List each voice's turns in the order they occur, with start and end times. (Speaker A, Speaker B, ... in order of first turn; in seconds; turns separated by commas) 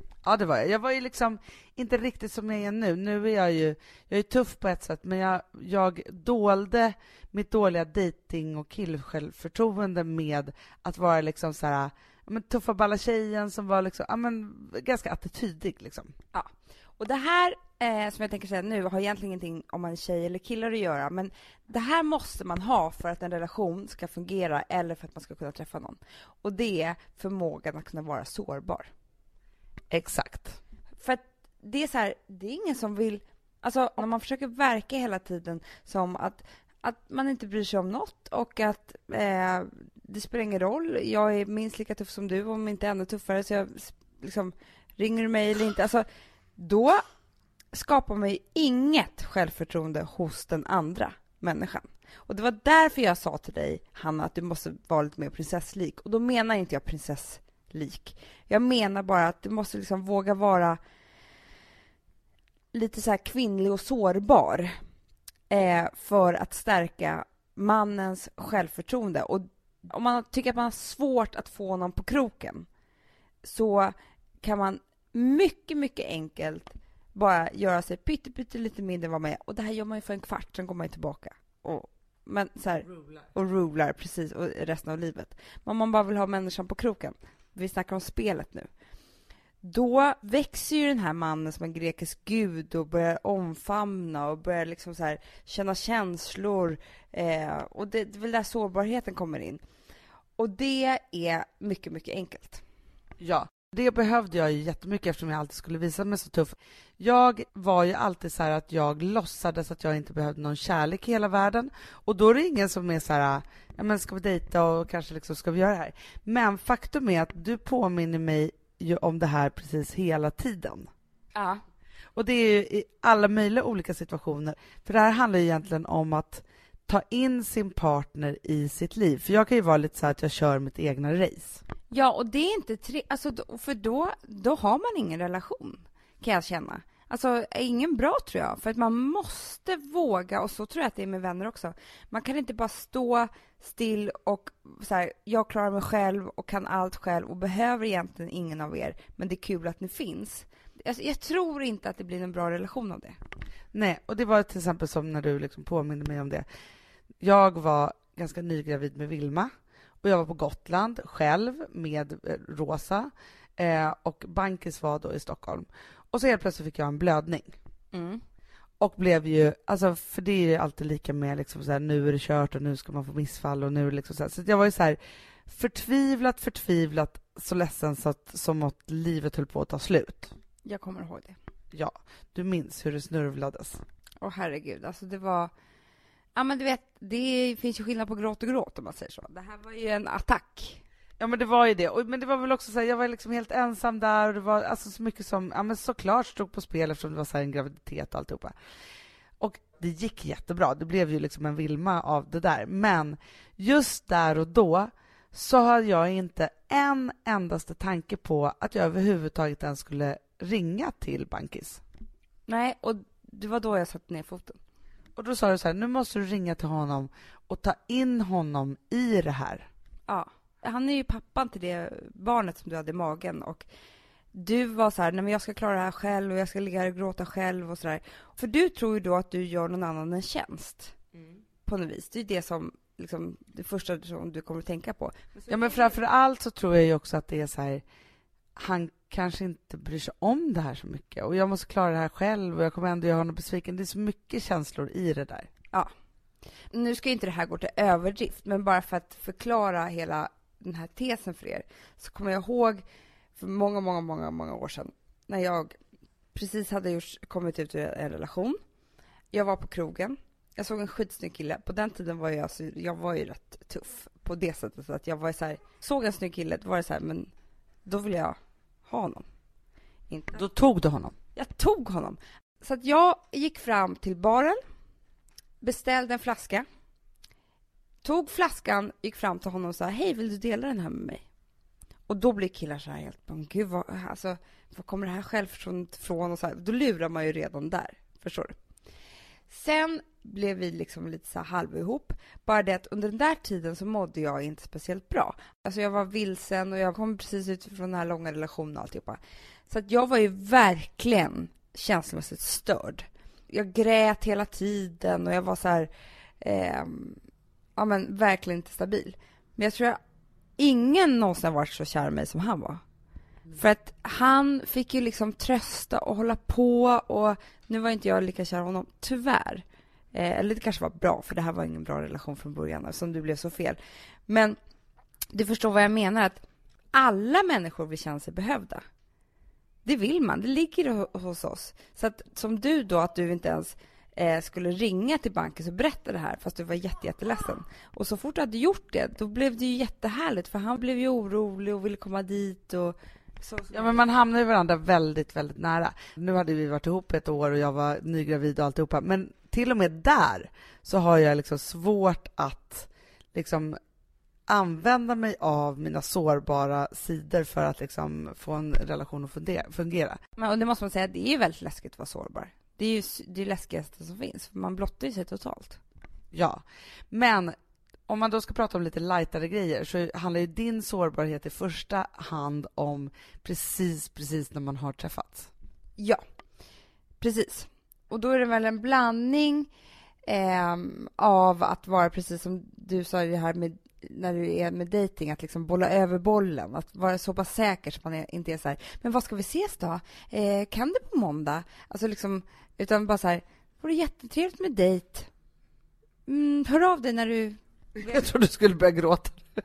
Speaker A: 0.2-16.1, Speaker B: 16.3-28.9, Speaker A: 29.9-30.6, Speaker B: 31.0-46.0, Speaker B: 46.6-47.0, Speaker B: 47.7-60.8, Speaker B: 62.7-64.7, Speaker B: 65.5-72.7, Speaker B: 73.4-88.7, Speaker B: 89.6-99.6, Speaker B: 100.4-102.6, Speaker A: 103.2-120.9, Speaker B: 121.3-121.6, Speaker A: 122.1-131.6, Speaker B: 131.9-153.2, Speaker A: 153.7-156.4, Speaker A: 157.2-159.5, Speaker A: 160.0-167.5, Speaker B: 167.9-168.2, Speaker A: 168.8-180.3, Speaker B: 180.6-181.4, Speaker A: 181.7-183.8, Speaker B: 184.2-185.5, Speaker B: 186.3-190.8, Speaker A: 191.2-198.5, Speaker A: 199.4-211.8, Speaker B: 212.5-214.6, Speaker A: 215.2-219.7, Speaker B: 220.1-223.7, Speaker B: 224.3-230.9, Speaker B: 231.7-235.9, Speaker A: 235.5-237.8, Speaker A: 238.6-245.5, Speaker B: 246.7-252.8, Speaker B: 253.3-255.7, Speaker B: 256.3-258.6, Speaker B: 259.3-267.3, Speaker B: 267.8-269.2, Speaker B: 270.1-270.4, Speaker A: 270.4-271.1, Speaker B: 271.4-274.6, Speaker B: 275.6-276.6, Speaker B: 278.0-281.2, Speaker B: 282.1-288.5, Speaker B: 289.5-307.2, Speaker B: 307.8-310.0, Speaker B: 310.6-312.8, Speaker B: 313.6-324.6, Speaker B: 325.3-328.8, Speaker B: 329.8-344.0, Speaker A: 343.7-353.8, Speaker A: 354.5-360.2, Speaker B: 360.4-365.8, Speaker A: 366.3-367.5, Speaker A: 368.1-375.5, Speaker B: 377.2-379.7, Speaker B: 380.2-395.3, Speaker B: 396.2-398.2, Speaker A: 398.0-399.4